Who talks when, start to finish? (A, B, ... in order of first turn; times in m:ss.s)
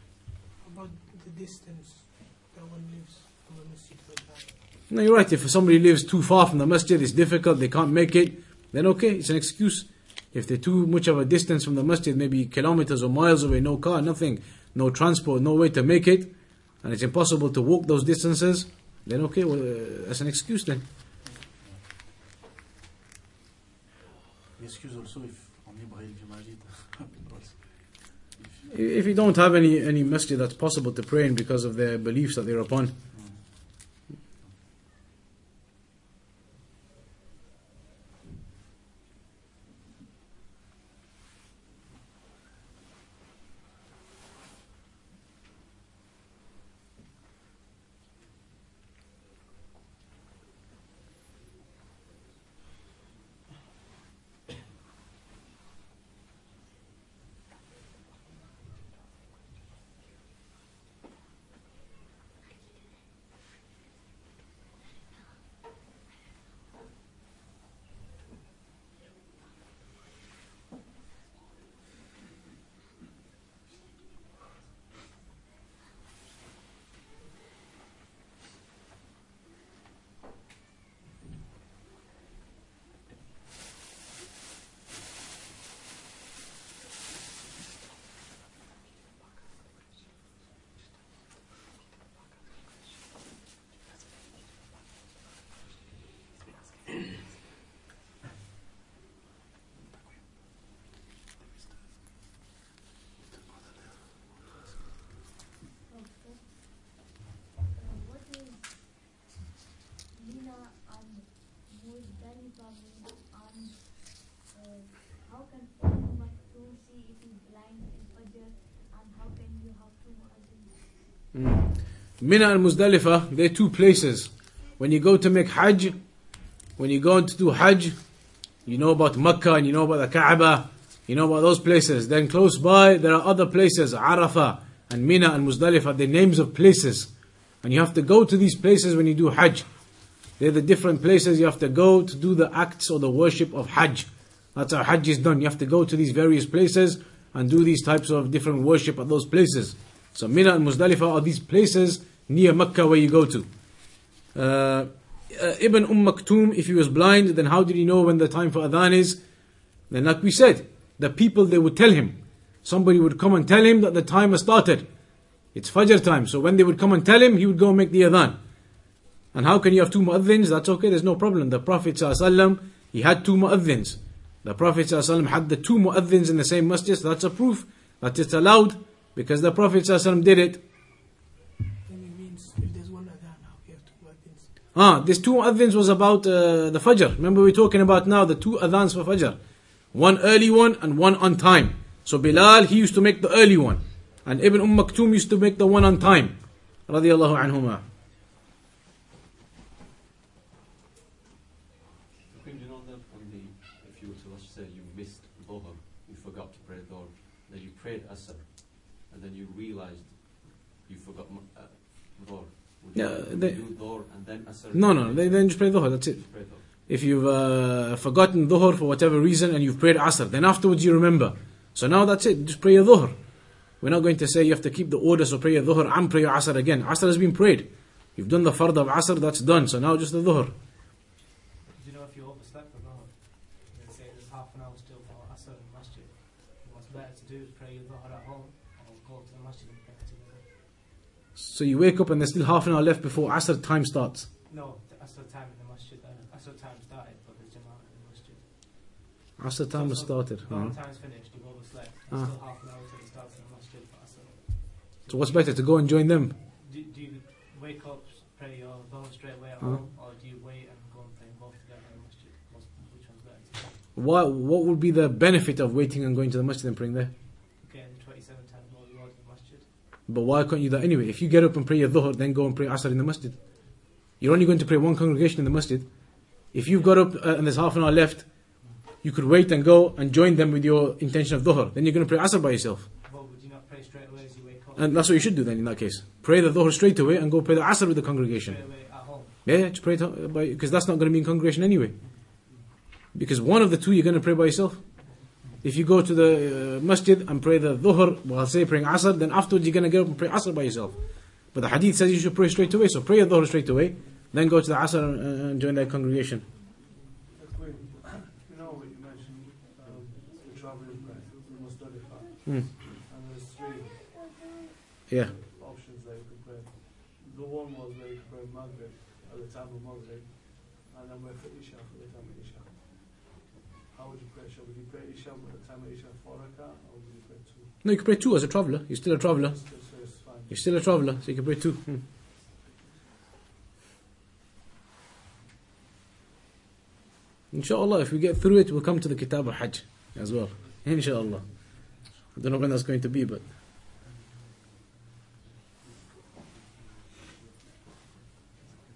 0:00.6-0:04.5 A
0:04.9-0:16.3 B
0:16.8-0:20.8 B
0:21.2-0:21.8 C
0:24.6-0:28.6 C
0:28.7-0:32.9 B
0:33.1-0:33.4 C
1:45.8-1:47.1 D
1:47.7-1:49.0 D
1:50.1-2:01.2 D
2:01.3-2:06.0 B
2:06.8-2:08.0 B
2:08.6-2:17.1 B
2:17.6-2:19.7 B
2:20.4-2:33.5 B
2:34.4-2:39.2 B
2:39.9-2:44.9 B
2:45.5-2:48.4 B
2:49.3-3:00.6 B
3:01.8-3:04.5 A
3:04.8-3:09.4 B
3:09.9-3:17.8 B
3:22.3-3:36.7 E
3:32.9-3:33.6 B
3:34.7-3:43.2 B
3:43.8-3:50.5 B
3:51.7-4:00.5 F
4:01.4-4:04.3 B
4:04.5-4:08.9 F
4:09.4-4:10.8 B
4:09.7-4:15.6 F
4:15.1-4:16.4 B
4:16.5-4:23.8 F
4:24.0-4:27.1 B
4:27.6-4:29.7 F
4:30.1-4:38.3 B
4:39.0-4:42.9 B
4:43.0-4:45.4 F
4:44.8-4:48.8 B
4:48.4-4:49.4 F
4:49.4-4:52.0 B
4:53.1-4:55.0 B
4:55.6-5:06.5 B
5:07.3-5:14.1 G
5:15.1-5:15.3 B
5:15.2-5:23.3 G
5:23.9-5:27.8 G
5:27.8-5:29.9 B
5:29.3-5:30.8 G
5:30.5-5:32.0 B
5:37.5-5:41.6 B
5:42.4-5:43.5 B